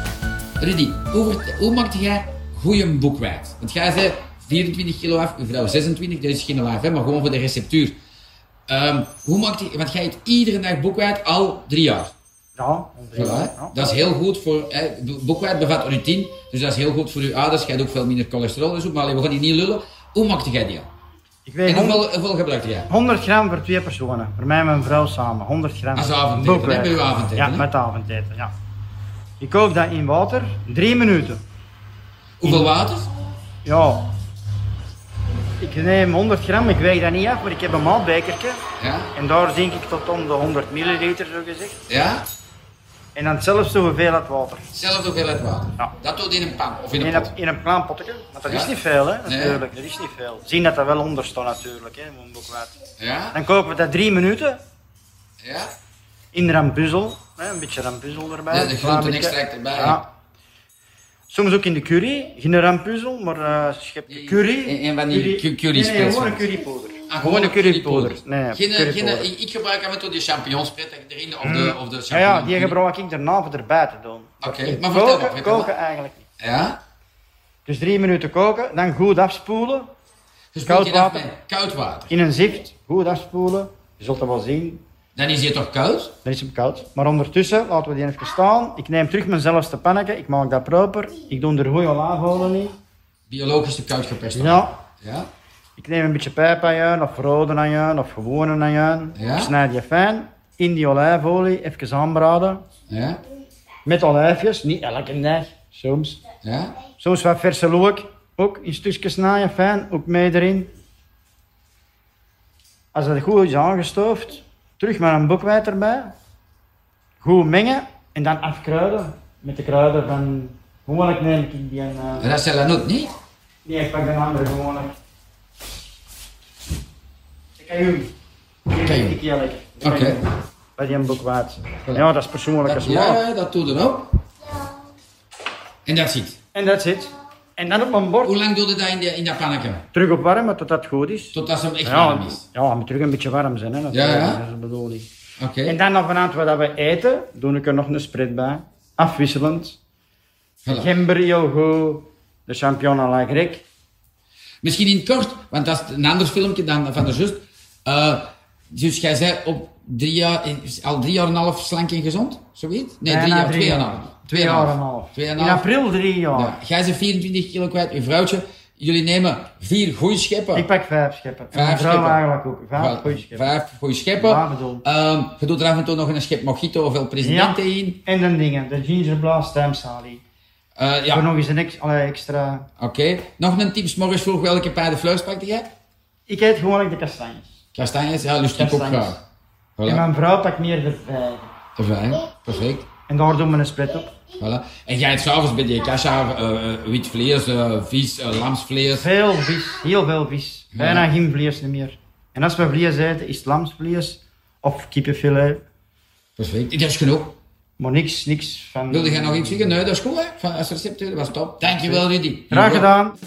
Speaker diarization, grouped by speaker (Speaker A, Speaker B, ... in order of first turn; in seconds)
Speaker A: 0.6-8.0, 8.7-12.1, 13.2-20.9, 21.7-22.9, 25.9-27.7, 32.4-33.1, 38.8-39.1, 41.9-42.2, 44.7-47.3, 49.3-49.6, 53.0-53.4, 55.4-55.7, 58.5-60.0, 64.1-66.5, 67.1-72.8, 74.4-75.7, 76.4-76.8, 80.5-82.1, 85.2-86.1, 93.3-95.3, 99.2-99.5, 102.9-103.2, 106.4-106.8, 122.2-123.1, 128.8-129.2, 129.8-130.2, 132.6-134.1, 135.8-136.4, 138.2-139.8, 141.3-142.4, 143.9-144.4, 145.4-145.8, 150.7-150.9, 154.6-165.6, 166.3-170.7, 171.5-172.2, 172.8-178.0, 180.8-181.2, 182.8-185.7, 187.7-189.2, 189.8-190.0, 191.8-192.9, 194.4-199.1, 200.7-201.1, 206.4-207.4, 208.9-212.9
Speaker B: 12.6-13.9, 21.5-22.1, 22.9-28.5, 29.4-31.4, 32.4-32.8, 33.6-34.1, 35.6-38.6, 39.1-41.8, 43.1-44.7, 47.0-52.7, 53.3-54.6, 56.3-60.1, 61.3-69.3, 71.4-76.2, 77.7-79.9, 80.7-81.3, 82.1-84.8, 86.2-92.8, 94.3-94.7, 95.8-102.6, 103.9-106.2, 107.0-110.7, 112.9-116.1, 117.2-122.3, 123.7-124.9, 127.6-128.1, 128.7-130.2, 130.8-133.2, 136.5-138.3, 139.9-145.1, 145.7-149.8, 150.7-153.6, 163.1-166.6, 170.5-173.5, 174.2-174.8, 177.2-180.2, 181.1-182.7, 186.3-187.6, 188.6-189.2, 189.9-191.5, 193.1-194.1, 199.0-205.6, 207.8-209.8, 211.6-213.2